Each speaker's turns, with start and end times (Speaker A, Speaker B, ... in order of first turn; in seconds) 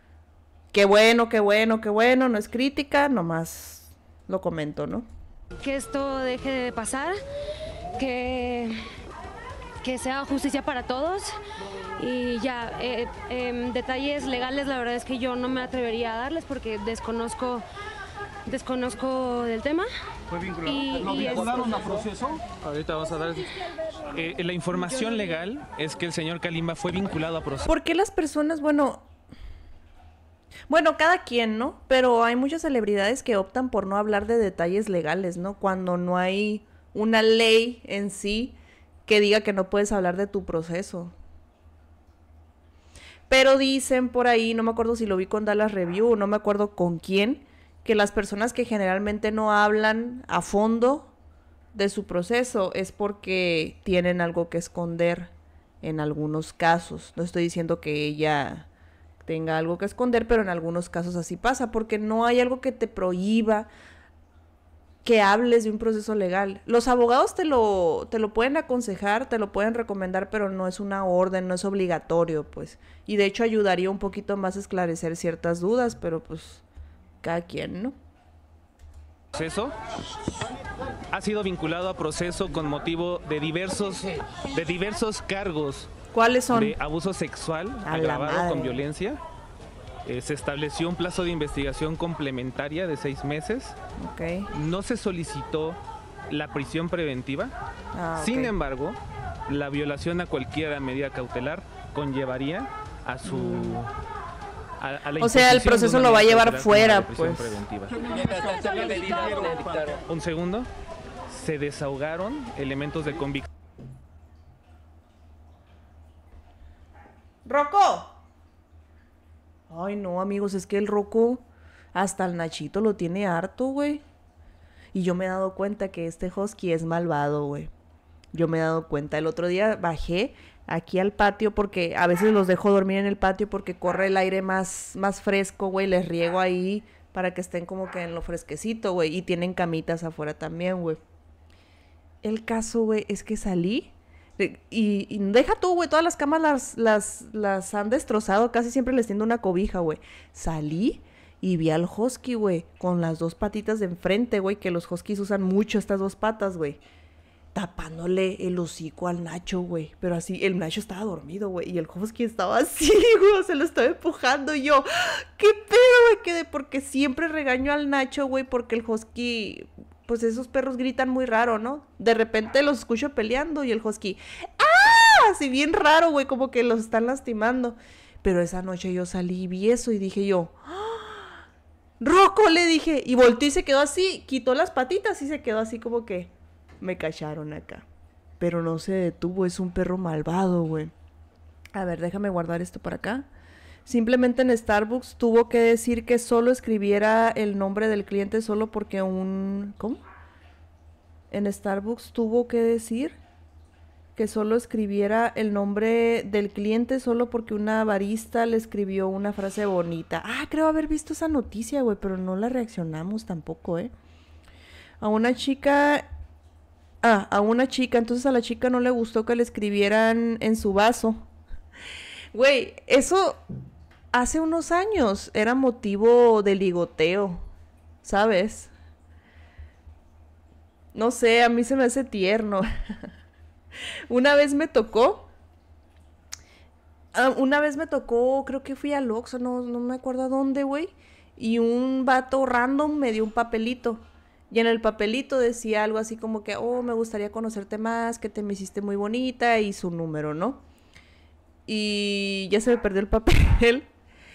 Speaker A: 0.7-5.1, 27.6-29.1, 30.7-41.1, 43.3-51.1, 51.7-55.3, 55.8-58.7, 59.2-63.7, 65.0-76.6, 77.2-77.9, 86.1-86.7, 87.8-88.8, 94.0-94.5, 97.9-98.5, 103.2-103.8, 105.2-107.5, 117.4-118.1, 119.7-124.0, 124.9-127.7, 128.3-141.0, 142.2-156.8, 157.5-181.3, 182.0-187.8, 188.4-190.9, 191.7-193.3, 193.8-200.0, 201.3-203.2, 204.2-213.9, 215.0-216.0, 217.0-221.2, 222.3-223.4, 224.1-227.4, 228.0-228.7, 230.9-232.7, 234.1-235.3, 237.1-250.6, 251.7-253.9
Speaker B: 5.6-7.2, 8.0-8.8, 9.8-11.3, 12.0-17.6, 18.4-19.9, 20.6-21.9
Speaker C: 20.3-22.4, 108.0-110.0
Speaker D: 21.2-21.7, 22.6-23.5, 24.1-27.7, 79.3-79.7, 81.1-85.9, 86.5-89.2, 90.0-93.7, 94.5-95.8, 96.3-97.5, 98.2-103.9, 104.8-108.0, 110.1-110.7, 111.3-113.5